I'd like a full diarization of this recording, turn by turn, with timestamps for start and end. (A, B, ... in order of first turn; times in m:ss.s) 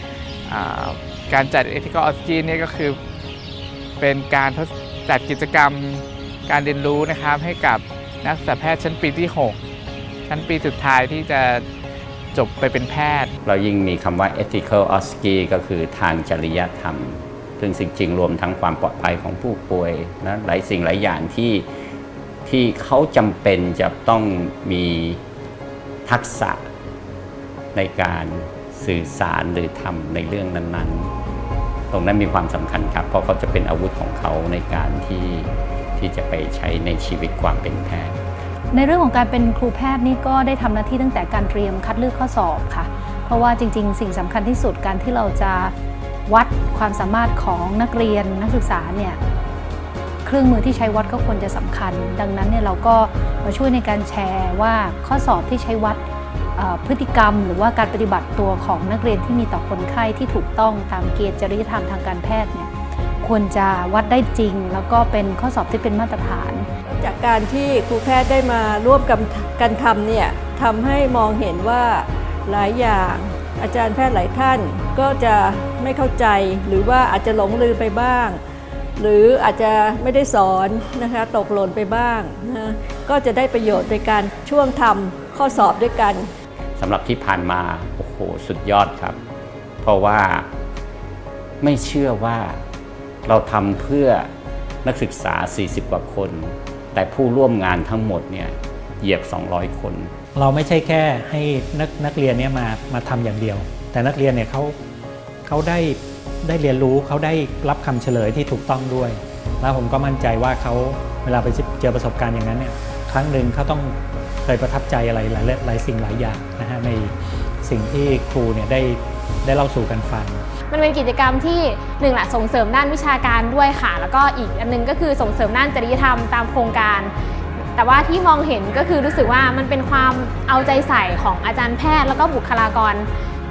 0:00.5-0:03.0 A
0:04.0-0:09.6 A
0:10.3-0:11.6 A
0:12.3-0:13.3 A
0:13.4-0:21.6 B
0:22.4-0:25.2 B
0:26.0-0:26.6 B
0:27.7-0:31.1 B
0:31.9-0:38.2 B
0:38.7-0:45.7 C
0:46.3-0:49.2 C
0:50.2-0:56.0 C
0:56.6-1:06.7 C
1:06.8-1:18.4 D
1:19.0-1:26.3 D
1:26.8-1:29.1 B
1:29.8-1:30.4 B
1:31.6-1:32.6 B
1:33.2-1:34.3 B
1:34.8-1:40.1 B
1:40.3-1:44.8 E
1:45.4-2:00.4 E
2:00.7-2:07.1 F
2:07.7-2:13.1 F